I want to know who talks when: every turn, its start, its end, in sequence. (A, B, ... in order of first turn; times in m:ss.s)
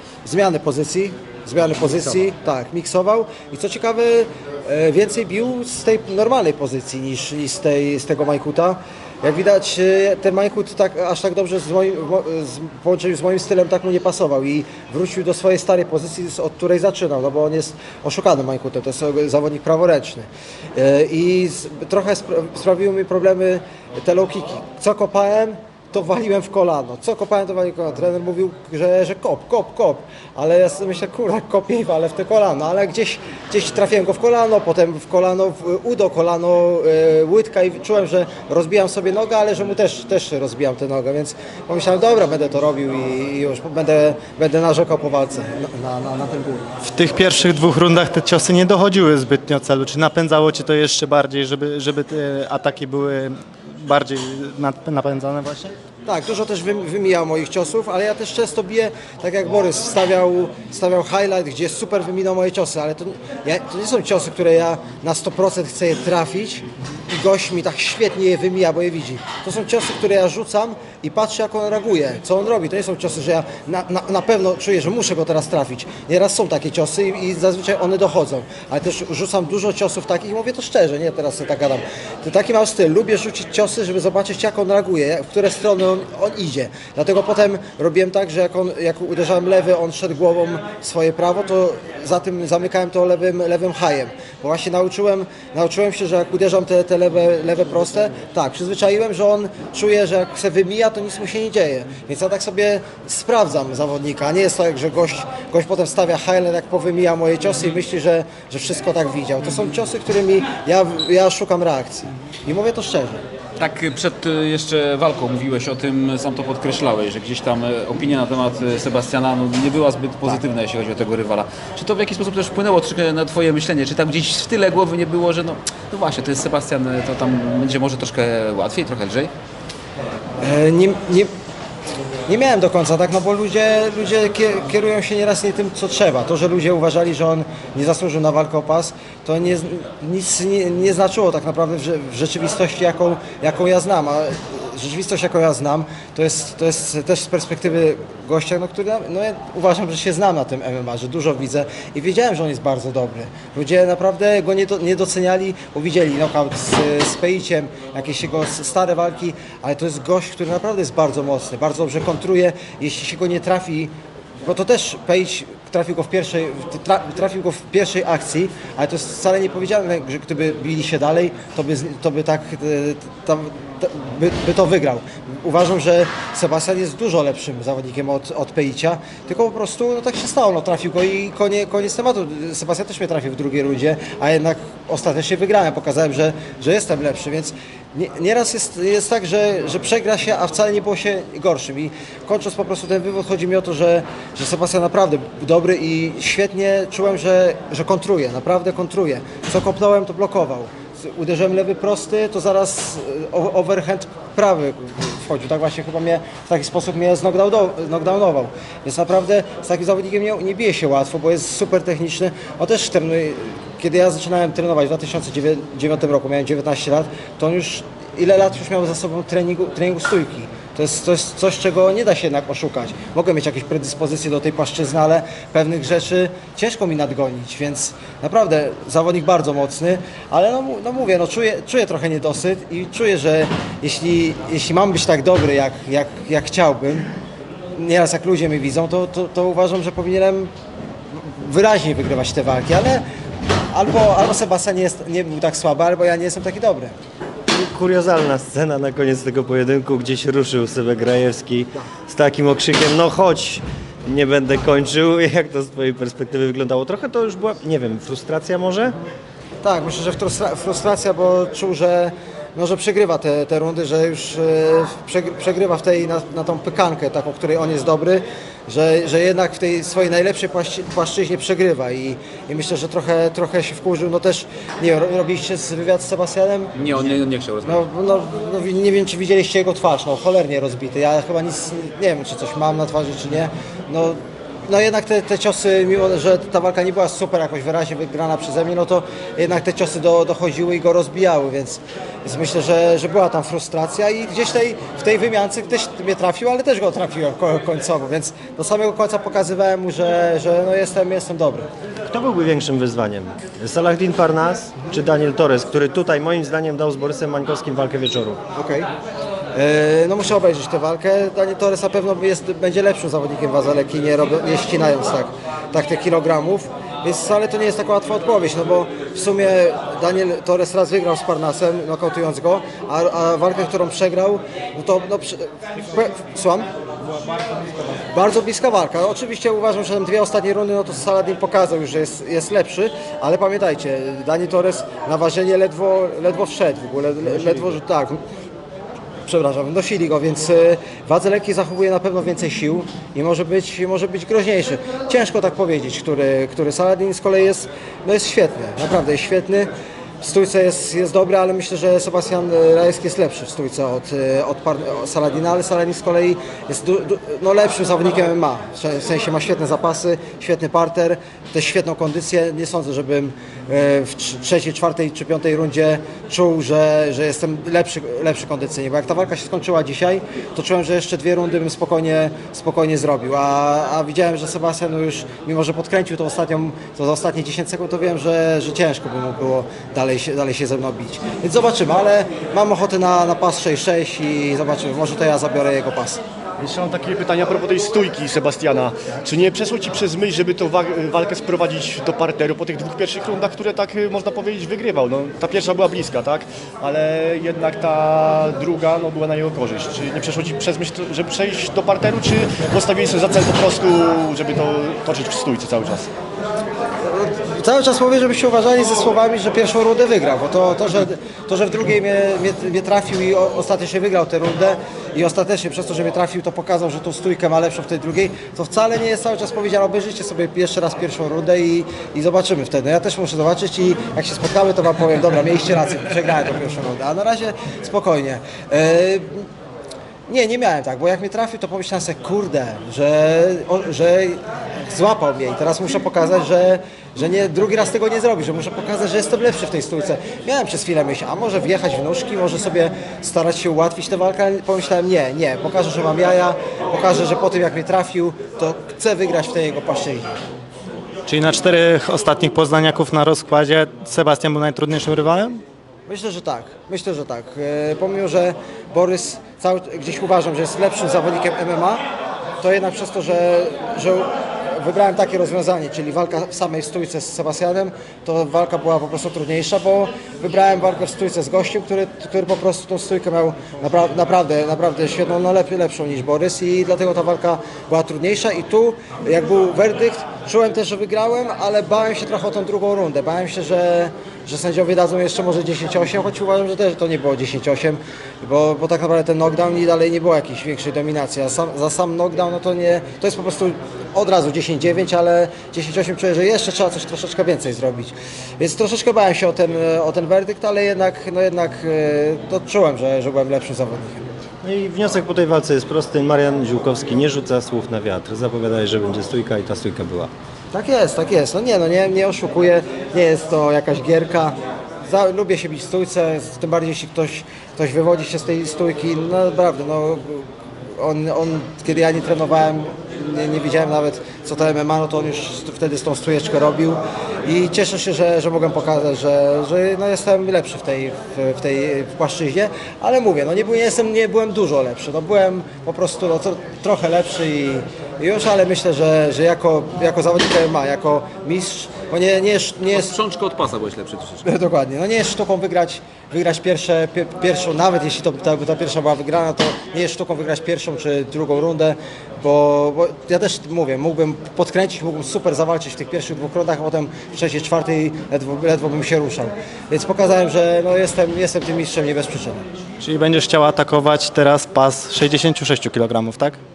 0:00.2-0:46.7 A
0:46.8-0:55.7 B
0:56.1-1:53.2 A
1:53.6-2:09.3 C
2:10.4-2:11.3 A
2:12.3-2:43.9 A
2:44.4-3:57.1 A
3:57.8-4:00.5 A
4:01.2-4:03.0 A
4:03.7-4:07.0 A
4:07.5-4:19.0 D
4:19.6-4:36.7 A
4:36.8-4:37.8 C
4:37.6-5:01.7 A
5:02.1-5:08.4 D
5:08.6-5:08.9 A
5:09.6-5:26.7 A
5:28.1-5:38.2 A
5:39.2-5:49.7 A
5:50.2-6:26.2 A
6:26.6-6:46.1 E
6:47.0-7:09.5 A
7:10.3-7:30.4 A
7:31.3-7:35.6 B
7:36.1-7:42.0 A
7:42.6-8:24.3 A
8:24.6-8:30.3 D
8:30.7-9:03.2 A
9:02.9-9:04.4 C
9:04.4-9:22.6 A
9:23.0-9:26.6 B